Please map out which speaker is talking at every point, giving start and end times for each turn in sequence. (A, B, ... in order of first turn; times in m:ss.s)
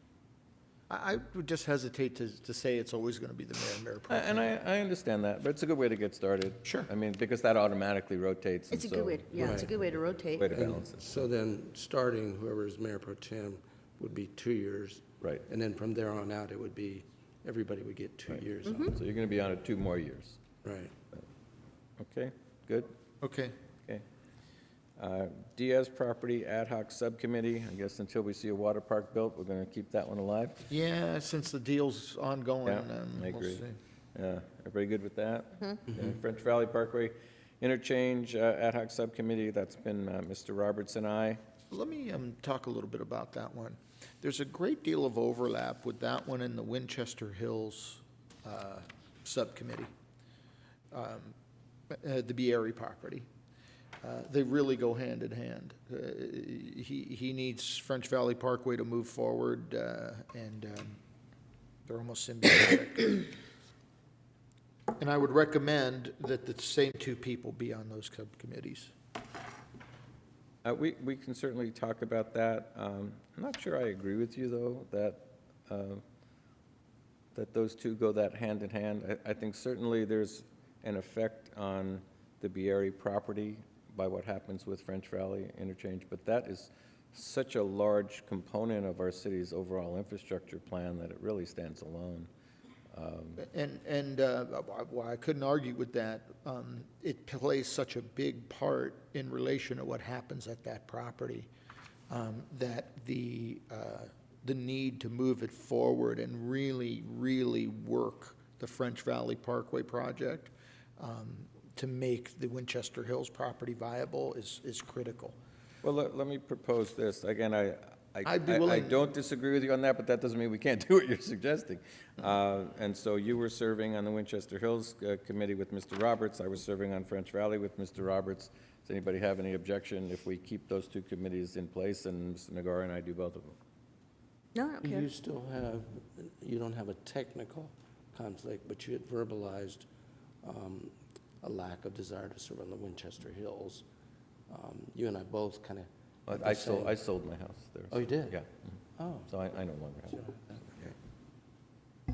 0:00.9-0:04.6 A
0:04.1-0:11.3 B
0:06.6-0:06.9 A
0:08.7-0:10.6 C
0:09.4-0:09.7 D
0:10.5-0:18.9 D
0:18.3-0:20.4 B
0:18.6-0:19.0 C
0:20.6-0:20.9 D
0:22.0-0:23.0 B
0:23.2-0:23.5 A
0:25.0-0:30.7 B
0:30.7-0:33.8 A
0:32.6-0:33.6 B
0:34.2-0:41.4 B
0:41.7-0:49.9 A
0:50.9-0:51.4 A
0:51.9-0:53.3 A
0:54.0-1:01.0 A
1:01.9-1:03.3 A
1:05.0-1:08.9 A
1:10.6-1:16.0 B
1:17.4-1:32.3 B
1:32.9-1:33.4 B
1:33.4-1:41.5 A
1:42.1-1:55.4 A
1:55.8-2:13.6 B
1:58.2-1:59.0 A
2:14.6-2:15.1 C
2:14.8-2:19.9 D
2:20.4-2:23.8 D
2:24.5-2:26.9 D
2:26.3-2:28.5 B
2:27.9-2:28.4 D
2:29.0-2:29.3 D
2:29.3-2:30.3 B